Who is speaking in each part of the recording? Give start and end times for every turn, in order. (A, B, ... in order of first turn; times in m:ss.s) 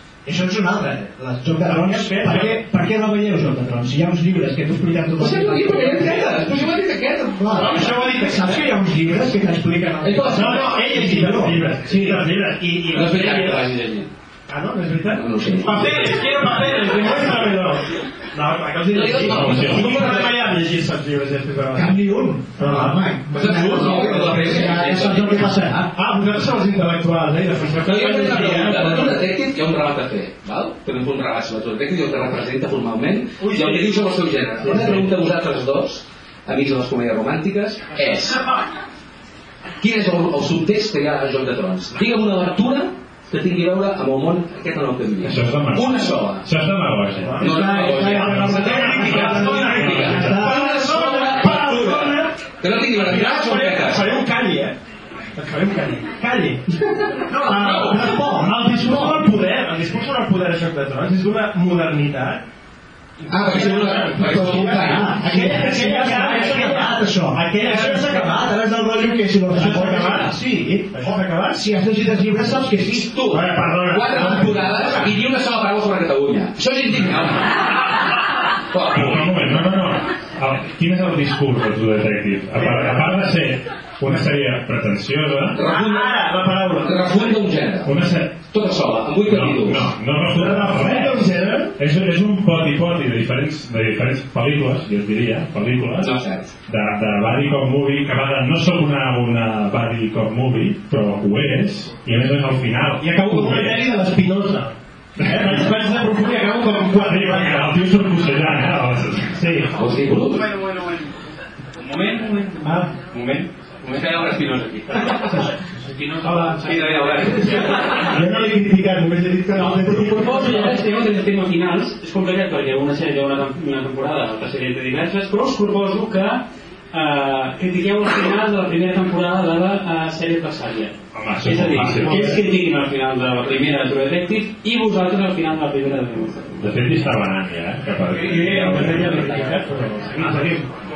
0:00.3-0:06.8 A
0:01.6-0:02.6 B
0:05.2-0:08.0 C
0:07.3-0:11.6 A
0:07.5-0:08.7 B
0:10.0-0:10.8 C
0:10.3-0:13.6 B
0:11.9-0:12.2 C
0:12.9-0:14.1 C
0:14.5-0:22.0 B
0:15.1-0:16.0 C
0:18.9-0:20.5 C
0:19.2-0:20.2 D
0:21.7-0:25.9 A
0:22.6-0:23.0 B
0:23.3-0:25.6 C
0:23.9-0:24.2 B
0:25.9-0:29.2 B
0:27.8-0:38.4 C
0:33.4-0:34.0 B
0:34.6-0:35.1 B
0:39.8-0:46.5 C
0:45.2-0:47.4 D
0:47.3-0:52.3 B
0:47.4-0:54.1 C
0:47.4-0:51.6 A
0:48.1-0:50.5 D
0:53.0-0:54.8 B
0:55.4-0:56.6 B
0:57.3-0:59.3 A
0:57.3-0:58.2 C
0:57.4-1:02.4 B
1:03.3-1:05.3 C
1:03.3-1:08.4 B
1:03.4-1:13.2 A
1:09.5-1:11.6 B
1:12.8-1:17.7 C
1:13.3-1:15.1 B
1:14.1-1:14.6 A
1:18.7-1:19.6 C
1:18.9-1:25.6 D
1:22.6-1:23.2 B
1:25.5-1:27.9 C
1:25.6-1:27.3 B
1:27.8-1:28.4 D
1:28.5-1:29.9 C
1:29.3-1:36.1 D
1:30.3-1:31.7 B
1:36.0-1:36.5 C
1:36.7-1:43.8 D
1:43.0-1:44.7 B
1:45.2-1:45.6 D
1:45.2-1:47.8 B
1:46.9-1:49.4 D
1:49.4-1:49.7 B
1:49.8-1:50.5 C
1:51.8-1:57.8 E
1:52.6-1:52.9 B
1:53.9-1:55.3 C
1:56.2-2:00.8 B
1:56.6-1:58.0 C
1:59.5-2:16.5 E
2:11.1-2:12.5 D
2:16.6-2:19.4 D
2:18.1-2:20.7 B
2:20.2-2:20.4 D